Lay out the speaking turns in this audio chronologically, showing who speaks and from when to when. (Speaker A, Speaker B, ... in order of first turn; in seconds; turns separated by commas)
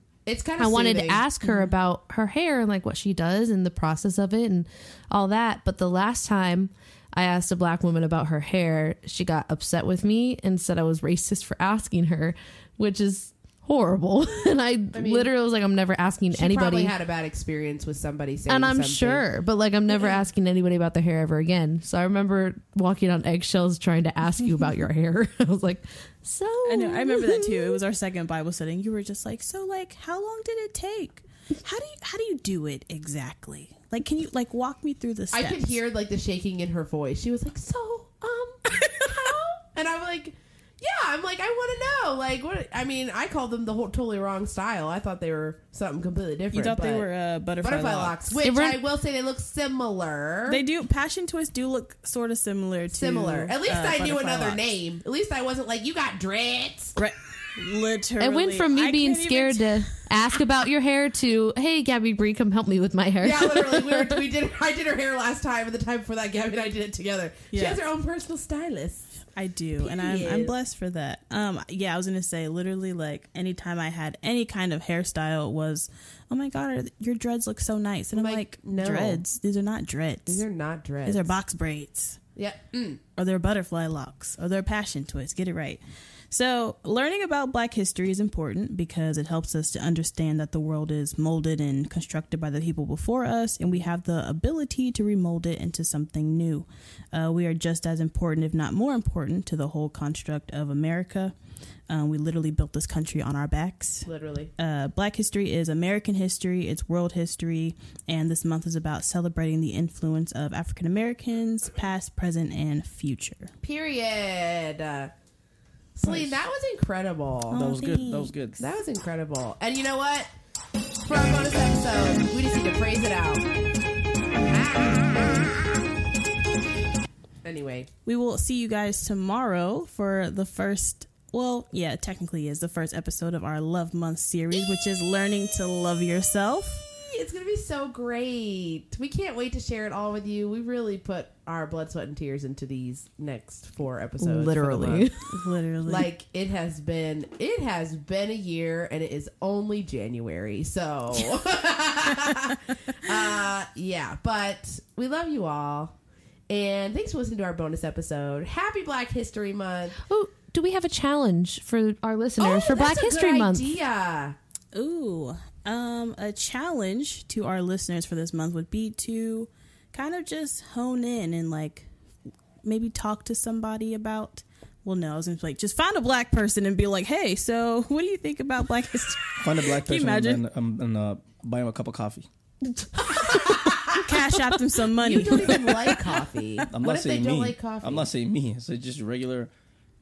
Speaker A: 0.2-1.2, Speaker B: 0.6-16.9, Speaker C: 1.5-1.7, Speaker A: 14.9-15.3, Speaker A: 16.3-19.2, Speaker B: 18.5-27.8, Speaker A: 19.9-20.2, Speaker C: 26.6-35.8, Speaker A: 35.3-47.0, Speaker C: 38.7-39.3, Speaker C: 46.5-48.2, Speaker A: 47.6-50.6, Speaker B: 48.4-48.8, Speaker C: 50.5-54.6, Speaker A: 52.9-57.0, Speaker C: 57.0-60.0, Speaker B: 58.2-64.2, Speaker A: 63.2-69.2, Speaker C: 67.5-67.8, Speaker C: 69.3-80.4, Speaker A: 69.8-70.5, Speaker A: 78.1-79.2, Speaker A: 80.3-81.4, Speaker C: 81.0-82.2, Speaker A: 82.3-83.0, Speaker C: 83.2-101.3, Speaker C: 101.9-113.5, Speaker A: 104.0-104.5, Speaker A: 113.6-115.1, Speaker A: 116.0-117.6, Speaker C: 117.5-118.3, Speaker D: 117.5-118.6, Speaker A: 118.6-120.3, Speaker A: 121.0-123.4, Speaker A: 124.4-125.7, Speaker A: 127.4-127.9, Speaker C: 128.0-136.8, Speaker A: 137.0-145.1, Speaker B: 144.2-145.2, Speaker C: 145.3-146.1, Speaker A: 145.8-155.9, Speaker A: 156.5-160.0, Speaker B: 160.0-163.7, Speaker A: 162.4-164.4, Speaker C: 164.7-171.9, Speaker C: 172.6-180.4, Speaker D: 179.4-182.3, Speaker B: 182.8-183.6, Speaker C: 183.9-186.1, Speaker A: 185.0-188.1, Speaker D: 186.7-189.5